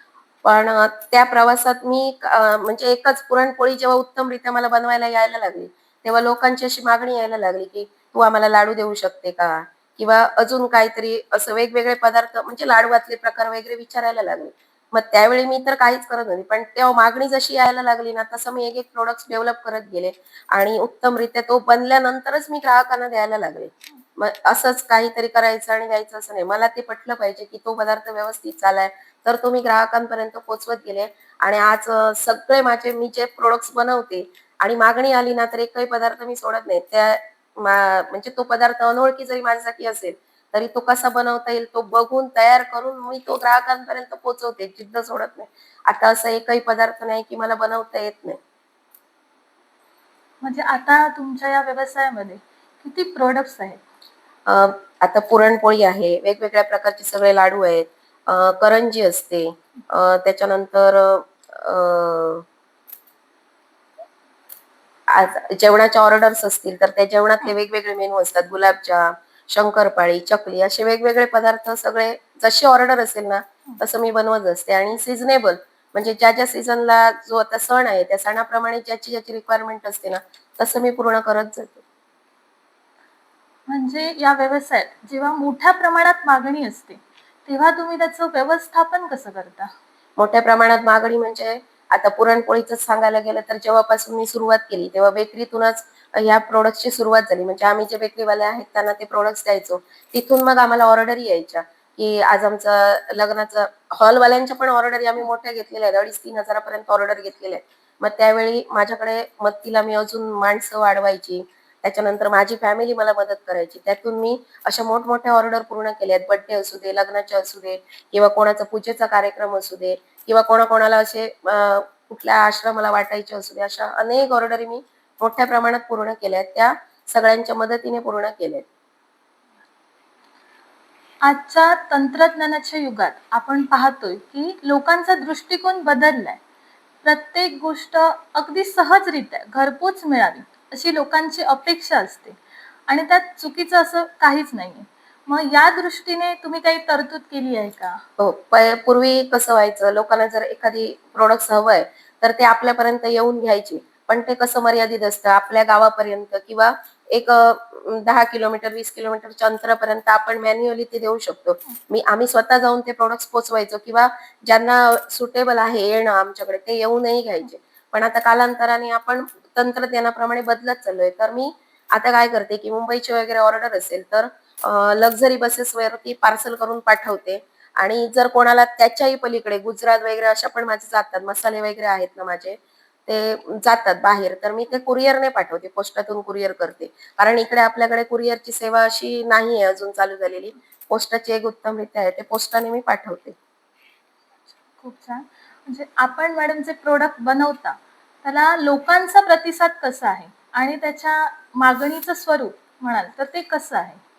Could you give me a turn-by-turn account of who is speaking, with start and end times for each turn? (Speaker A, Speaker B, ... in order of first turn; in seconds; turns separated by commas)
Speaker A: 0.4-48.4, Speaker B: 50.4-53.8, Speaker A: 54.5-62.4, Speaker A: 65.1-81.8, Speaker B: 83.7-89.7, Speaker A: 90.2-128.6, Speaker B: 131.2-136.4, Speaker B: 137.0-148.0, Speaker A: 148.2-193.3, Speaker B: 194.7-204.0